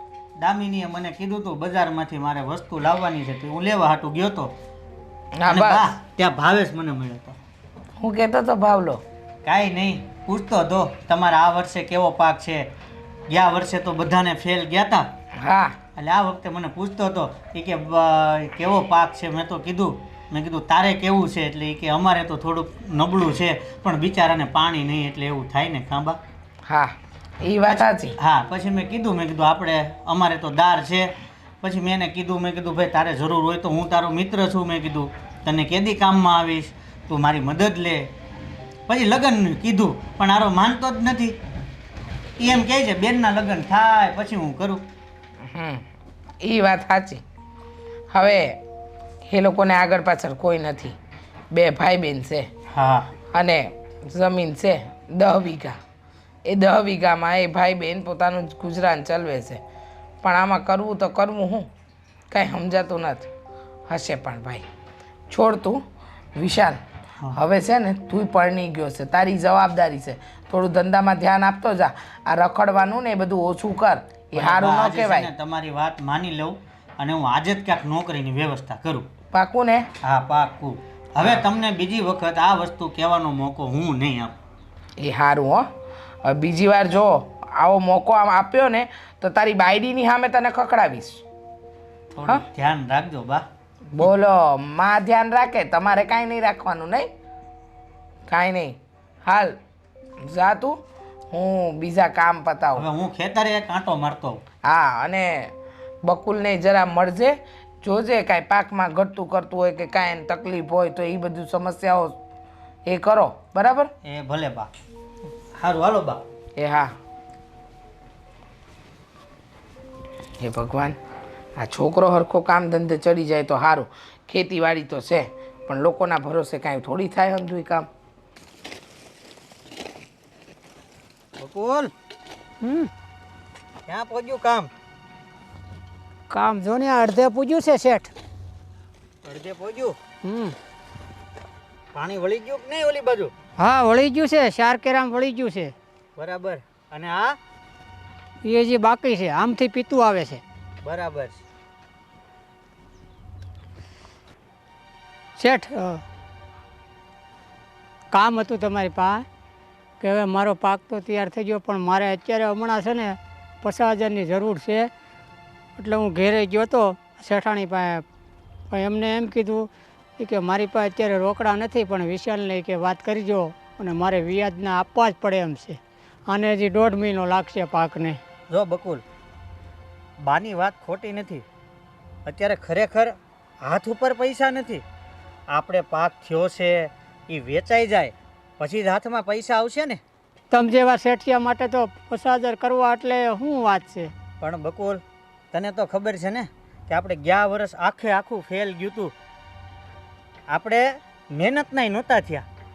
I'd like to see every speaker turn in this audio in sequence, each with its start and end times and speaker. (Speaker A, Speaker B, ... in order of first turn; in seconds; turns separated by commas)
Speaker A: 0.4-4.5, Speaker B: 5.4-5.9, Speaker A: 5.5-7.3, Speaker B: 8.0-9.0, Speaker A: 9.4-12.7, Speaker A: 13.3-15.1, Speaker B: 15.4-15.7, Speaker A: 16.0-26.2, Speaker B: 27.4-28.1, Speaker A: 27.7-31.1, Speaker A: 31.6-38.1, Speaker A: 38.9-41.4, Speaker A: 42.4-44.8, Speaker B: 45.5-45.8, Speaker B: 46.4-47.2, Speaker B: 48.1-48.6, Speaker B: 49.3-50.9, Speaker B: 51.5-52.5, Speaker A: 52.7-53.1, Speaker B: 53.3-55.8, Speaker B: 56.5-59.6, Speaker B: 60.2-61.7, Speaker B: 62.3-63.3, Speaker B: 63.9-64.6, Speaker B: 65.3-65.8, Speaker B: 66.3-66.8, Speaker B: 67.3-75.3, Speaker A: 74.3-79.1, Speaker B: 79.3-79.9, Speaker A: 80.0-84.3, Speaker B: 85.0-85.7, Speaker B: 86.2-91.2, Speaker A: 92.1-93.4, Speaker B: 93.9-97.1, Speaker B: 98.3-99.5, Speaker B: 100.2-100.8, Speaker B: 101.3-102.8, Speaker A: 102.8-104.4, Speaker B: 104.7-105.5, Speaker B: 106.0-112.2, Speaker B: 112.8-113.9, Speaker A: 114.0-114.7, Speaker A: 115.6-116.2, Speaker B: 116.6-116.9, Speaker B: 120.4-121.0, Speaker B: 121.6-127.9, Speaker A: 131.4-131.9, Speaker C: 132.6-132.9, Speaker A: 133.9-134.7, Speaker C: 136.3-138.1, Speaker A: 139.2-140.0, Speaker C: 140.2-140.5, Speaker A: 141.9-143.3, Speaker C: 143.6-145.7, Speaker A: 146.2-147.4, Speaker C: 148.4-150.4, Speaker A: 150.8-151.4, Speaker C: 155.4-156.0, Speaker C: 158.1-159.2, Speaker C: 160.0-164.9, Speaker C: 165.8-168.0, Speaker C: 168.7-178.2, Speaker A: 178.5-179.0, Speaker A: 180.2-181.4, Speaker A: 182.2-184.8, Speaker A: 185.5-190.0, Speaker C: 190.5-194.1, Speaker A: 194.4-195.0, Speaker A: 195.5-199.1, Speaker A: 200.5-202.4